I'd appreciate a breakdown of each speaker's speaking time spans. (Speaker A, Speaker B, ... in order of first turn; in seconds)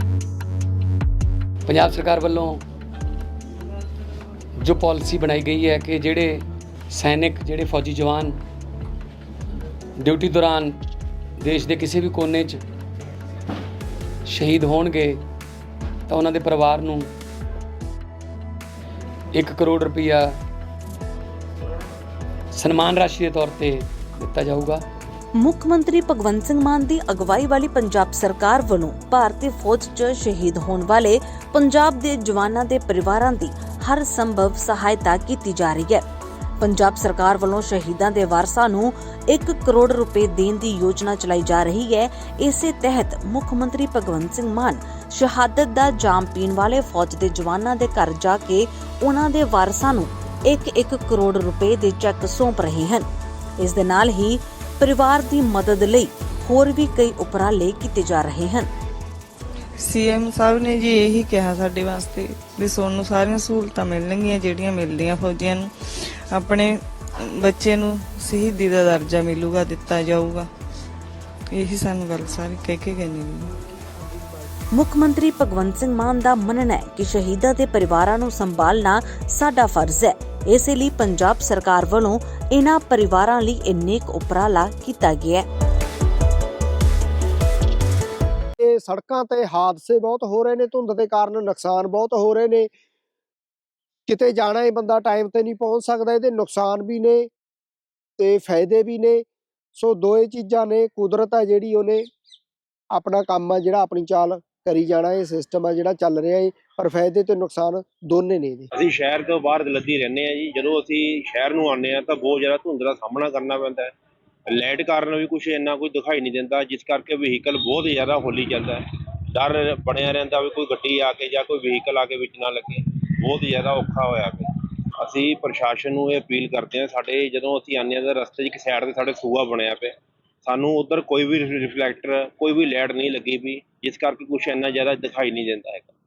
Speaker A: 1.6-2.6, 4.6-8.3, 10.0-10.8, 11.4-12.6, 14.3-15.2, 16.1-17.1, 19.3-20.3, 22.5-24.8
Speaker B: 25.3-36.0, 36.6-53.1, 53.6-58.7, 74.7-85.5
Speaker C: 59.8-70.5, 71.5-73.5
Speaker D: 88.6-92.7, 94.1-97.3, 98.2-99.2, 99.8-102.1, 102.9-108.7
Speaker E: 108.7-113.9, 114.5-124.5, 125.0-135.9